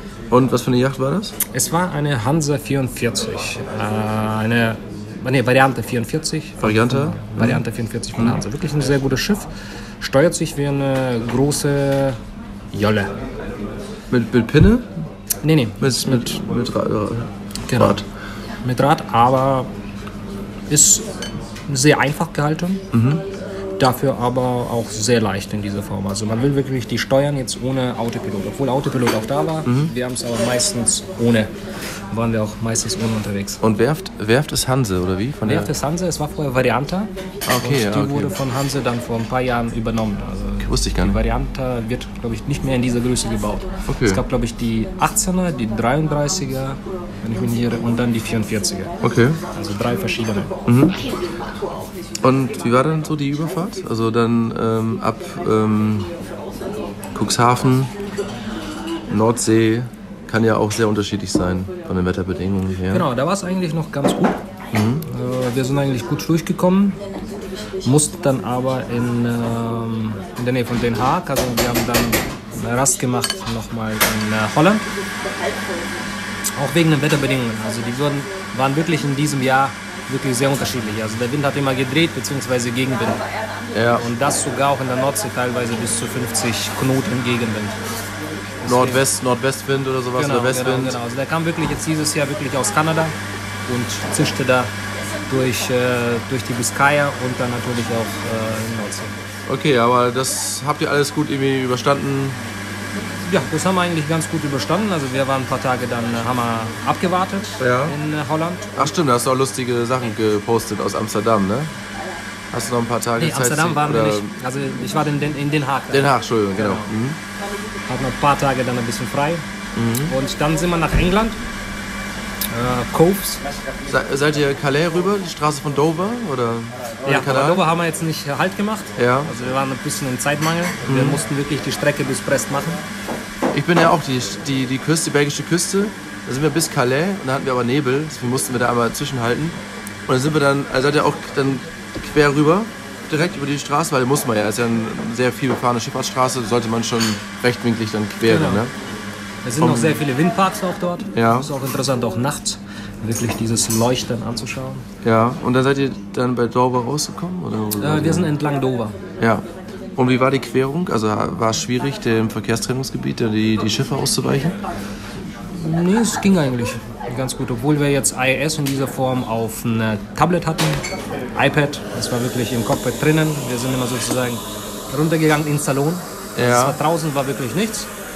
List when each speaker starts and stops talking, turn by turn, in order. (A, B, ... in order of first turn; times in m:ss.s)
0:00.3-0:01.3 A
0:01.5-0:09.5 B
0:06.6-0:07.6 A
0:08.2-0:08.4 A
0:10.0-0:12.2 B
0:12.7-0:13.1 B
0:14.1-0:14.9 A
0:15.4-0:16.4 B
0:15.8-0:18.0 A
0:17.7-0:18.0 B
0:18.6-0:19.7 B
0:20.7-0:21.1 B
0:21.7-0:22.8 B
0:22.9-0:23.2 A
0:23.8-0:31.5 B
0:29.6-0:29.9 A
0:32.1-0:33.6 B
0:33.6-0:35.7 A
0:35.4-0:48.9 B
0:37.4-0:38.4 A
0:40.6-0:41.2 A
0:43.9-0:44.2 A
0:49.0-0:49.4 A
0:49.5-0:50.5 B
0:50.7-0:51.0 A
0:52.2-0:56.1 A
0:57.1-0:57.9 A
0:59.1-1:03.1 A
1:02.9-1:04.4 B
1:04.7-1:05.1 A
1:05.1-1:07.0 B
1:07.8-1:14.9 B
1:16.6-1:23.2 B
1:23.7-1:24.0 A
1:23.9-1:27.8 B
1:28.6-1:29.0 B
1:28.6-1:31.0 A
1:30.2-1:33.1 B
1:33.7-1:34.7 B
1:35.3-1:39.1 B
1:39.5-1:42.4 A
1:43.2-1:48.9 B
1:47.6-1:48.0 A
1:48.8-1:51.7 A
1:52.5-1:54.4 A
1:53.2-1:56.9 B
1:55.9-1:57.2 A
1:57.9-1:59.4 B
1:59.7-2:00.1 A
2:00.0-2:01.4 B
2:02.5-2:03.4 B
2:03.9-2:07.6 A
2:07.0-2:12.8 B
2:09.0-2:09.4 A
2:10.8-2:11.2 A
2:13.5-2:28.7 A
2:28.2-2:28.6 B
2:29.4-2:34.8 B
2:29.6-2:30.0 A
2:31.2-2:31.5 A
2:35.0-2:38.3 A
2:37.8-2:39.0 B
2:39.2-2:39.4 A
2:40.0-2:44.6 A
2:45.5-2:50.8 B
2:51.4-2:57.9 B
2:56.4-2:56.8 A